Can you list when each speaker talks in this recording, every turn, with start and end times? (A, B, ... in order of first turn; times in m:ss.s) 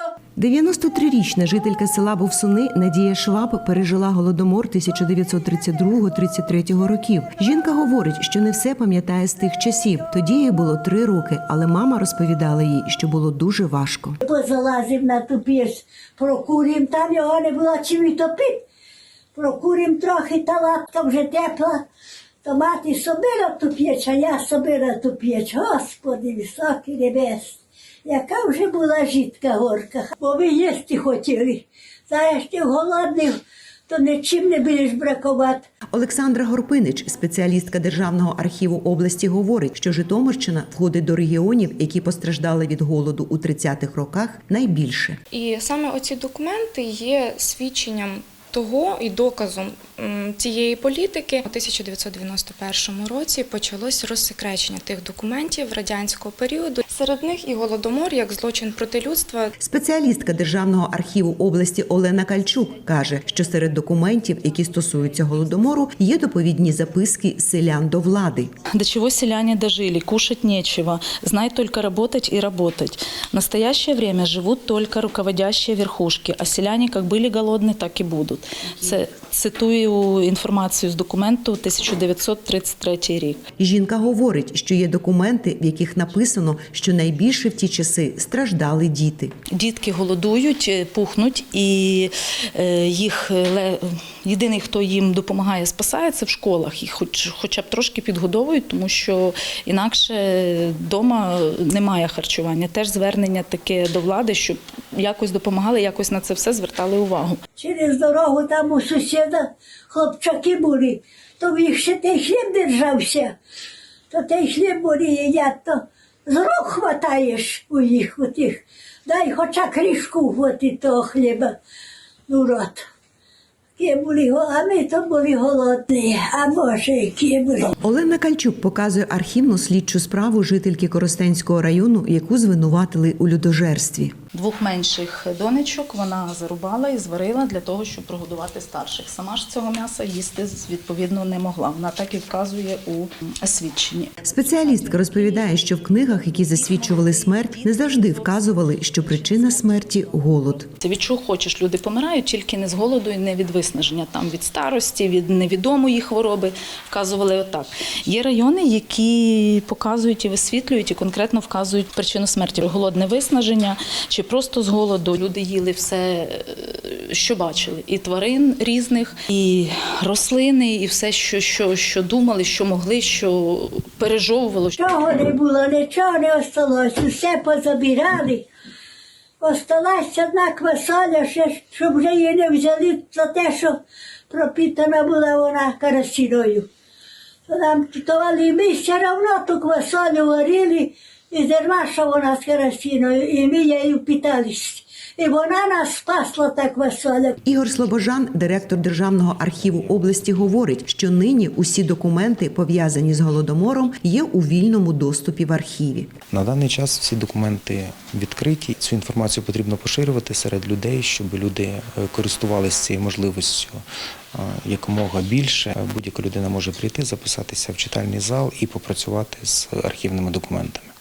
0:00.4-0:14.2 A
0:14.2-0:18.6 B
0:19.3-0:21.8 B
0:22.4-0:35.7 B
0:35.9-0:45.2 A
0:45.3-0:59.5 C
0:59.6-1:08.5 A
1:08.7-1:23.4 D
1:23.6-1:29.3 A
1:29.5-1:47.4 D
1:47.6-1:53.4 B
1:54.1-2:01.5 B
2:02.3-2:02.9 B
2:03.8-2:07.7 B
2:07.8-2:14.1 A
2:14.3-2:29.8 D
2:24.2-2:30.7 A
2:30.8-2:55.0 D
2:54.8-2:58.5 B
2:59.4-3:06.7 B
3:07.5-3:17.4 B
3:17.4-3:26.1 A
3:26.3-3:33.8 E
3:34.3-3:40.9 E